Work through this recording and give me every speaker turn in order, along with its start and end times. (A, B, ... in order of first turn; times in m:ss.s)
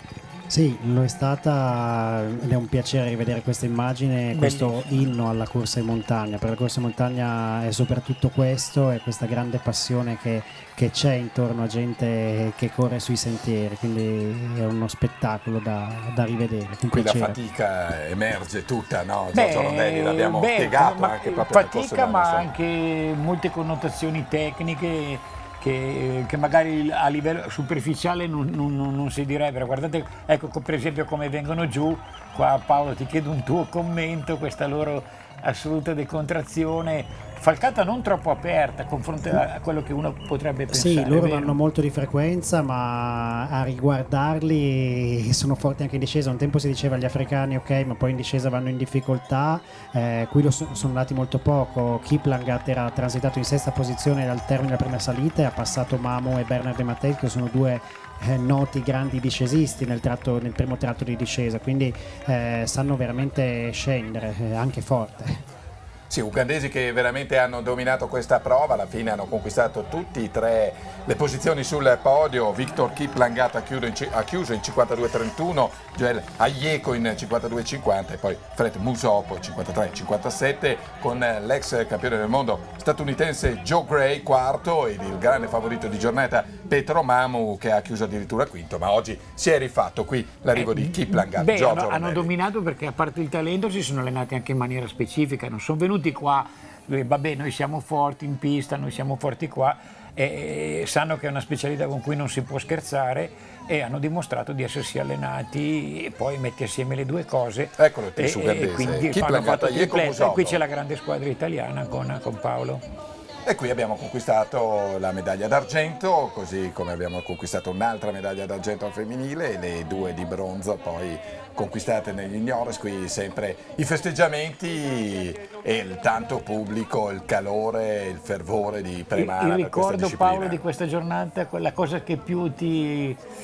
0:00.5-0:17.3 A
0:04.3-0:05.0 B
0:16.9-0:22.5 C
0:19.3-0:41.6 B
0:40.7-1:05.4 A
1:06.1-1:32.3 C
1:30.5-1:52.8 B
1:47.8-1:50.6 C
1:53.4-2:10.6 C
2:09.1-2:13.2 B